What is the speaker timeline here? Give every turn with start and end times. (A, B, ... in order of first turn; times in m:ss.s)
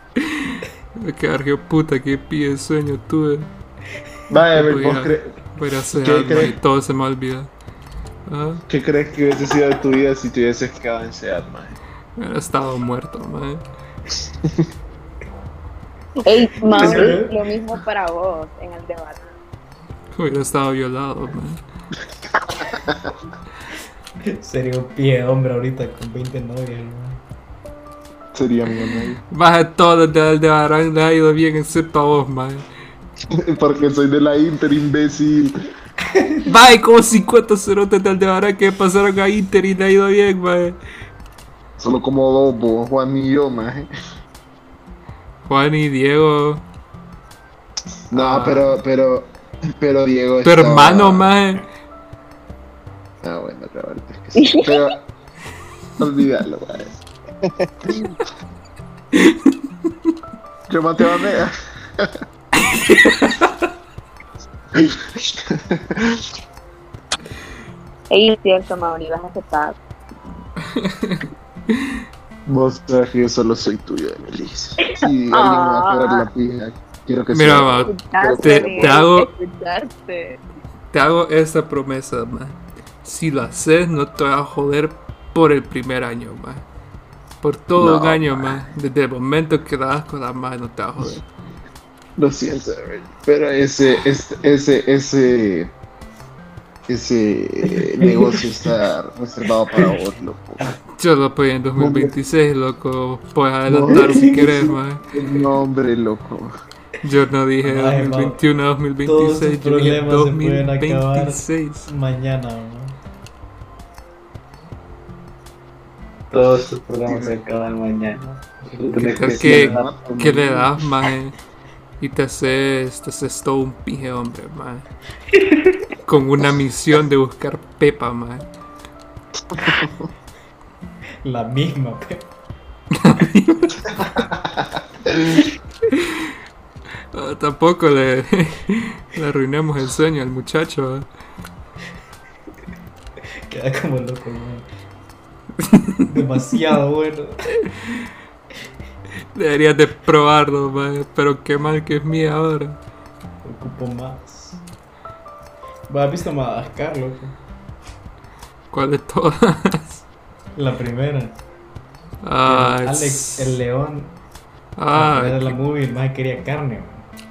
0:00.2-0:03.5 A
0:04.3-0:05.4 B
0:04.5-0:07.5 A
0:05.9-0:06.6 B
0:08.3-0:08.6 A
0:08.7-0:11.8 B
0:12.2-0:13.6 A
0:16.2-0:19.3 C
0:16.8-0:17.3 D
0:16.8-0:17.1 B
0:20.1-0:21.6 A
0:22.5-0:23.1 B
0:24.2-0:27.2 D
0:28.3-0:29.2 B
0:29.3-0:32.6 A
0:33.3-0:35.5 B
0:36.4-0:40.8 A
0:41.8-0:43.9 B
0:45.4-0:46.6 A
0:48.1-0:51.3 B
0:48.1-0:48.8 A
0:50.4-0:51.6 A
0:53.2-0:55.0 B
0:54.4-0:54.9 C
0:56.0-0:58.1 B
1:00.7-1:02.1 B
1:04.7-1:06.2 B
1:08.1-1:09.8 C
1:10.8-1:11.2 A
1:12.5-1:19.0 B
1:14.8-1:16.3 C
1:17.3-1:19.3 A
1:17.8-1:20.4 C
1:20.9-1:26.6 A
1:27.4-1:31.2 A
1:27.8-1:28.7 B
1:32.2-1:35.7 B
1:36.9-1:40.7 B
1:41.0-1:45.0 A
1:41.8-1:42.1 B
1:43.7-1:46.5 B
1:43.9-1:44.7 D
1:47.0-1:51.9 A
1:47.6-1:48.4 D
1:49.0-1:53.0 D
1:56.3-1:59.9 E
1:58.2-1:59.8 D
1:58.9-2:01.4 A
1:59.1-2:00.7 B
2:02.0-2:04.9 A
2:06.0-2:08.5 A
2:09.5-2:10.0 B
2:11.2-2:12.3 D
2:12.9-2:13.8 A
2:15.1-2:15.4 B
2:17.1-2:21.0 A
2:23.5-2:24.6 D
2:25.6-2:26.0 A
2:26.1-2:27.9 D
2:29.3-2:32.8 A
2:33.4-2:34.6 D
2:35.9-2:37.4 D
2:38.7-2:40.0 A
2:40.5-2:41.4 D
2:42.2-2:43.6 A
2:42.4-2:44.1 D
2:44.8-2:45.6 A
2:44.9-2:47.1 D